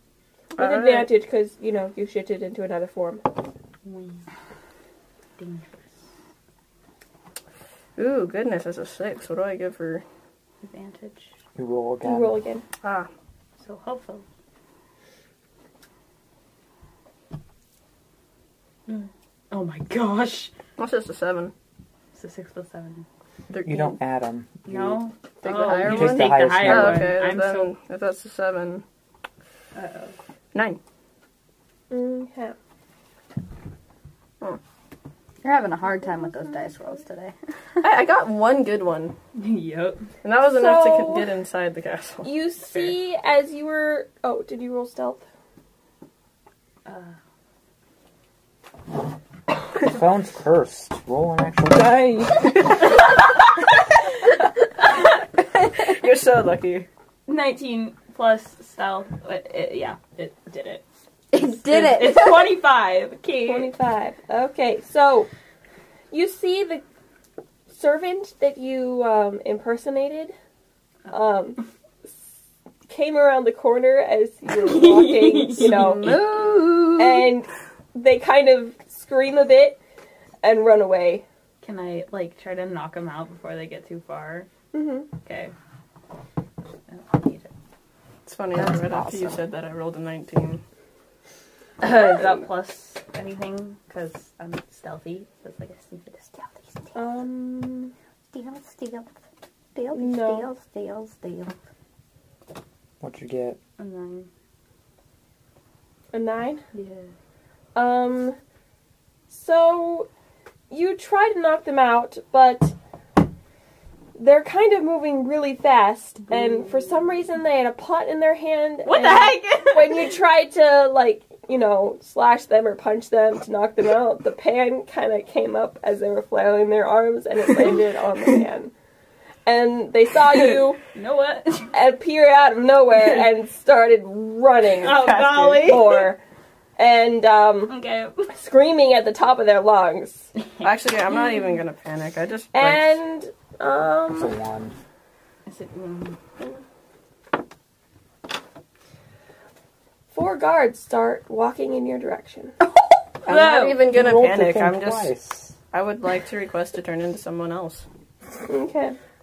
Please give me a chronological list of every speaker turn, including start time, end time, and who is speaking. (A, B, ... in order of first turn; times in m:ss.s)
0:00.6-0:01.1 A
0:00.6-0:03.3 B
0:03.8-0:04.2 C
0:05.4-0:06.0 C
0:08.0-0:10.0 A
0:10.6-0:11.3 C
0:11.6-0:12.4 D
0:12.0-0:12.6 B
0:12.8-0:13.1 A
0:13.6-0:14.2 C
0:18.9-0:20.5 C
0:20.8-0:21.5 A
0:22.1-0:23.0 C
0:23.5-0:24.0 A
0:23.6-0:25.0 D
0:24.6-0:27.7 C
0:25.4-0:28.8 A
0:25.7-0:27.2 D
0:29.7-0:30.2 C
0:30.5-0:30.8 A
0:31.9-0:32.6 B
0:35.4-0:37.3 E
0:37.8-0:39.2 A
0:39.3-0:40.0 C
0:40.2-0:42.3 A
0:40.5-0:41.3 B
0:42.2-0:45.2 B
0:46.8-0:47.2 C
0:49.8-0:53.0 D
0:55.4-0:56.9 A
0:57.3-1:00.8 C
1:01.3-1:02.6 E
1:01.6-1:03.7 C
1:03.4-1:05.3 B
1:06.1-1:06.8 B
1:07.7-1:10.3 B
1:11.1-1:11.6 B
1:12.9-1:16.2 B
1:14.5-1:16.2 C
1:15.6-1:17.3 E
1:17.0-1:19.8 B
1:20.4-1:21.2 B
1:21.6-1:24.5 C
1:24.7-1:25.1 B
1:25.2-1:25.5 C
1:26.9-1:27.5 C
1:28.2-1:30.6 A
1:28.5-1:29.4 E
1:31.8-1:36.7 C
1:36.9-1:37.9 B
1:38.3-1:39.1 E
1:39.7-1:41.5 E
1:40.0-1:40.5 B
1:43.0-1:43.6 D
1:43.8-1:44.3 C
1:46.1-1:46.6 B
1:46.7-1:47.1 C
1:47.7-1:48.4 B
1:49.3-1:50.1 B
1:50.7-1:52.7 B
1:54.1-2:08.7 B
1:56.3-1:57.1 C
1:58.8-2:00.1 C
2:09.4-2:10.8 B
2:10.9-2:11.7 C
2:11.7-2:16.2 B
2:14.8-2:16.1 C
2:14.8-2:15.7 A
2:16.8-2:17.7 B
2:17.7-2:18.3 C
2:18.3-2:20.3 B
2:20.4-2:20.7 C
2:20.6-2:23.0 A
2:22.5-2:24.3 B
2:24.1-2:24.7 D
2:25.5-2:26.2 C
2:30.1-2:32.5 B
2:33.2-2:35.1 A
2:33.2-2:33.8 C
2:33.8-2:35.6 D
2:35.7-2:37.8 A
2:38.5-2:39.0 B